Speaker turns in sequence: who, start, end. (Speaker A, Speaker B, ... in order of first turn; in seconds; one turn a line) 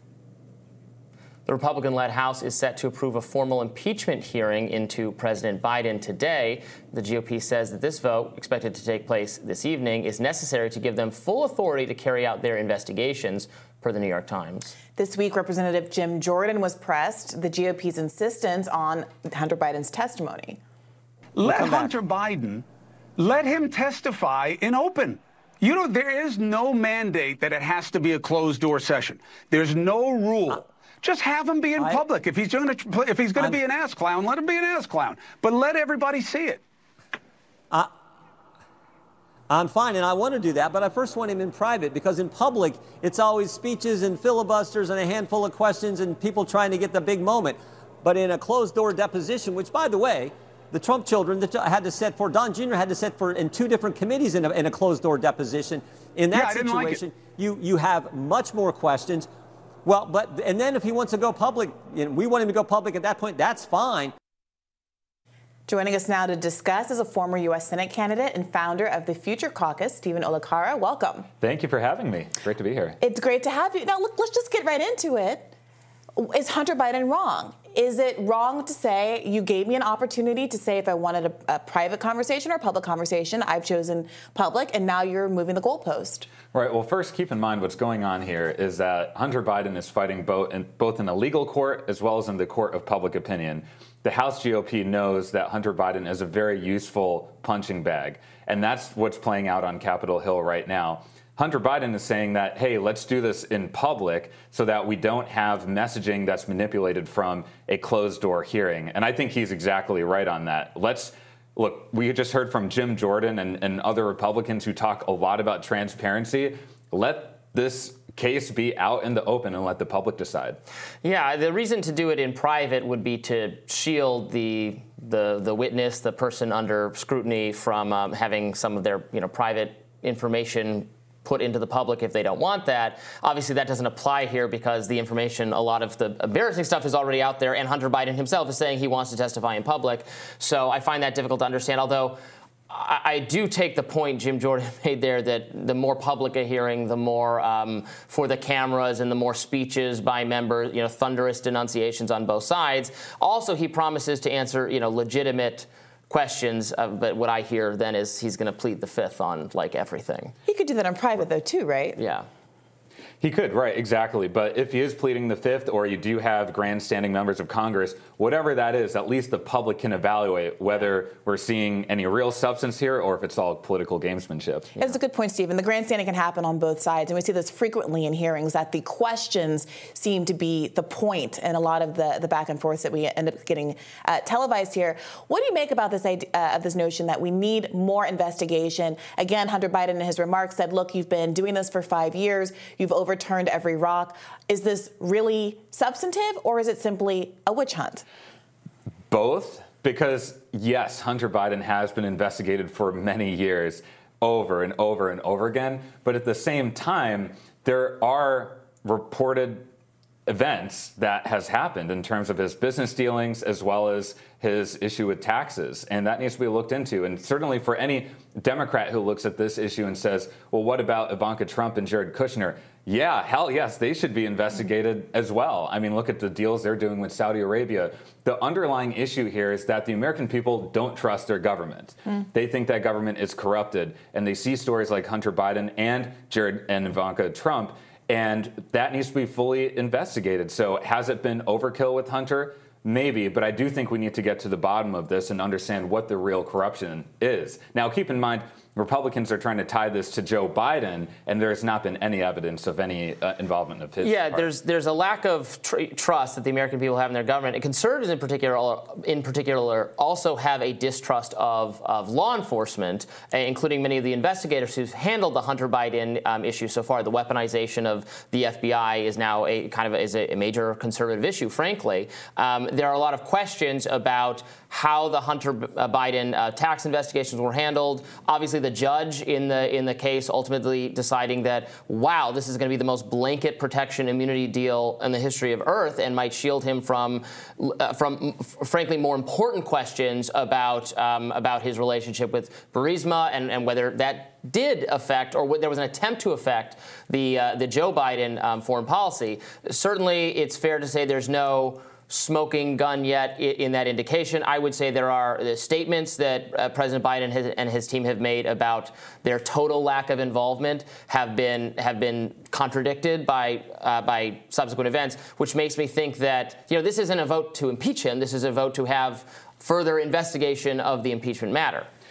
Speaker A: 1.5-14.8
Speaker B: 15.0-20.6
Speaker C: 21.4-22.6
Speaker D: 21.4-22.0
Speaker C: 23.2-36.6
Speaker D: 31.8-32.0
Speaker D: 33.4-33.6
Speaker D: 39.5-59.3
Speaker C: 56.3-57.0
Speaker D: 59.9-64.1
Speaker B: 65.7-71.3
Speaker E: 71.4-73.0
Speaker B: 73.0-75.5
Speaker B: 76.2-86.3
Speaker E: 86.5-120.6
Speaker A: 121.0-142.2
Speaker A: 142.7-160.3
Speaker B: 160.5-162.0
Speaker A: 162.0-162.3
Speaker E: 163.2-174.9
Speaker B: 174.8-198.1
Speaker E: 199.1-209.7
Speaker E: 210.3-254.5
Speaker A: 254.0-321.9